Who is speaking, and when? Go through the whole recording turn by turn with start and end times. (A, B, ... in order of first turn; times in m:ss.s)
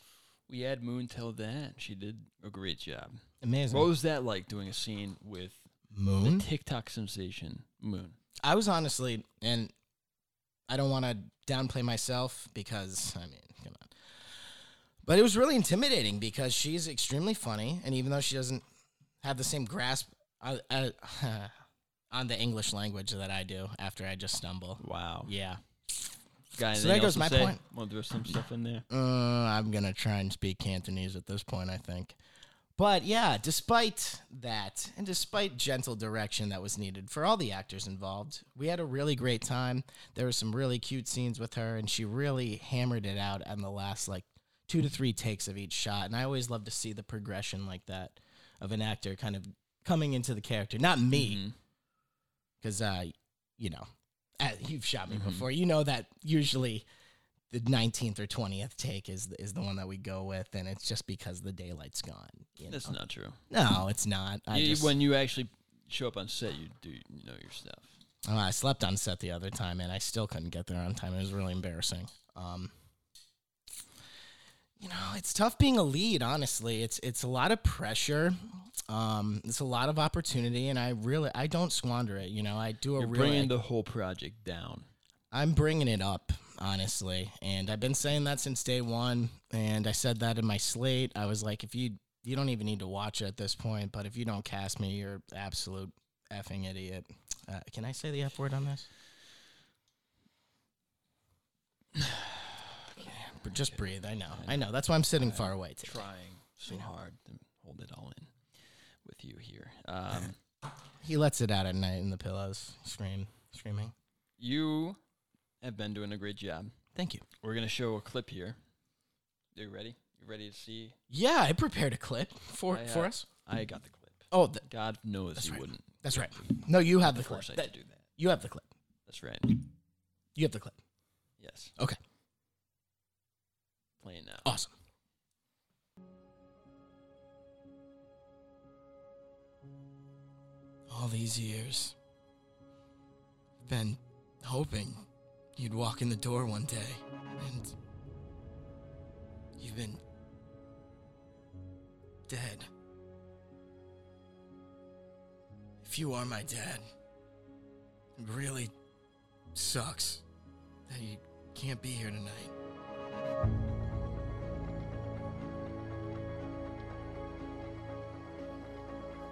0:00.5-0:05.7 A
0:03.4-0:03.9 B
0:05.9-0:06.5 B
0:06.2-0:08.2 A
0:08.4-0:09.7 B
0:10.7-0:13.9 B
0:15.0-0:18.6 B
0:19.2-0:21.5 B
0:22.1-0:25.6 B
0:24.8-0:25.3 A
0:26.6-0:28.9 A
0:26.7-0:27.6 B
0:28.9-0:32.2 B
0:32.8-0:51.4 B
0:51.1-0:51.6 A
0:52.6-0:53.8 B
0:54.4-0:56.9 B
0:55.1-0:55.5 A
0:57.5-1:02.9 B
1:02.7-1:03.4 A
1:03.5-1:05.0 B
1:04.5-1:07.9 A
1:08.3-1:12.7 B
1:14.8-1:23.5 B
1:23.0-1:24.9 A
1:25.3-1:38.9 B
1:41.9-1:48.3 A
1:43.2-1:46.0 B
1:49.0-1:50.4 A
1:51.0-1:53.9 B
1:54.4-1:55.0 A
1:55.6-1:56.8 A
1:57.0-1:57.2 B
1:57.4-1:58.6 A
1:59.6-2:01.0 A
2:01.1-2:03.3 B
2:02.7-2:08.0 A
2:04.3-2:04.6 B
2:05.4-2:08.7 B
2:09.1-2:09.6 A
2:10.4-2:10.8 B
2:11.4-2:11.7 A
2:14.0-2:14.5 A
2:14.4-2:14.7 B
2:20.9-2:22.0 B
2:23.6-2:25.0 B
2:25.6-2:27.8 B
2:29.6-2:30.0 B
2:32.3-2:32.7 B
2:35.8-2:36.8 B
2:38.2-2:38.7 B
2:39.5-2:40.2 B
2:40.9-2:42.5 B